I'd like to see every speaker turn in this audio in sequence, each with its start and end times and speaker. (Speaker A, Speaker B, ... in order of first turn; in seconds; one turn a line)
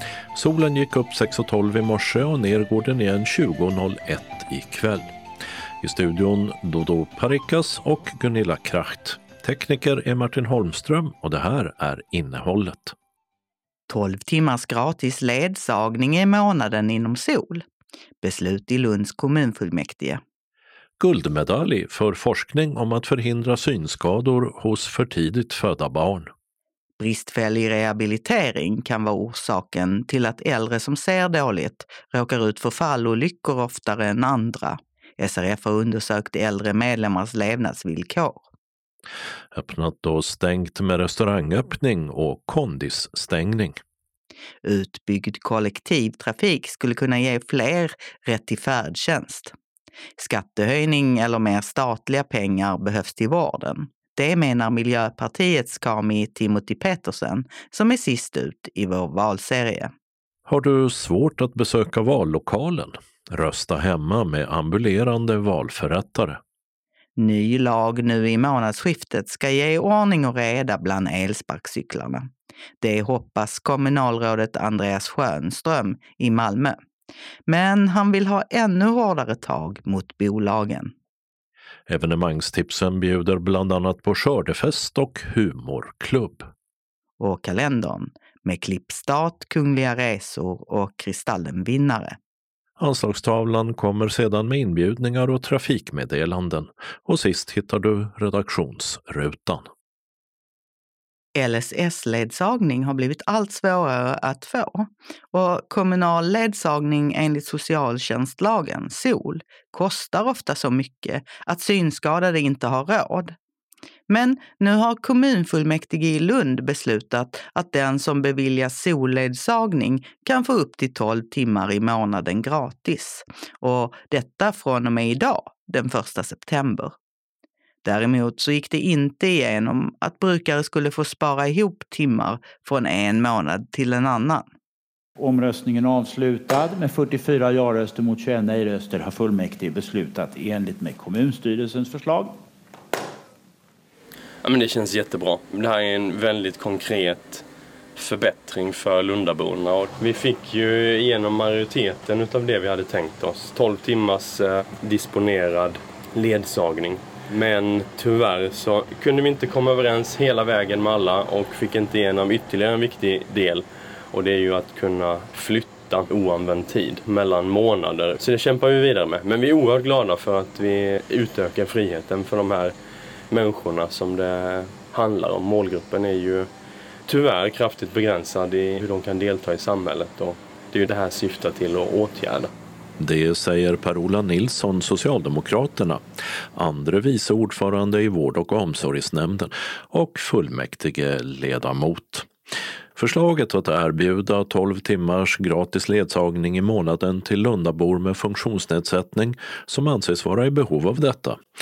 Speaker A: 0.3-5.2
Speaker A: 5.8-12.9
Speaker B: 13.9-17.6
Speaker B: 18.2-20.2
Speaker A: 21.0-26.3
Speaker B: 27.0-38.4
Speaker A: 39.5-43.8
Speaker B: 44.6-49.5
Speaker B: 50.2-59.9
Speaker A: 60.5-66.4
Speaker B: 67.2-76.8
Speaker B: 77.5-80.9
Speaker A: 81.9-86.5
Speaker B: 87.2-92.2
Speaker A: 92.8-99.7
Speaker B: 101.3-113.3
Speaker B: 114.1-126.9
Speaker B: 127.8-134.5
Speaker C: 135.2-142.4
Speaker D: 144.4-147.4
Speaker D: 147.9-172.7
Speaker D: 173.3-176.5
Speaker D: 177.1-182.5
Speaker A: 183.0-186.0
Speaker A: 186.5-192.3
Speaker A: 192.9-201.4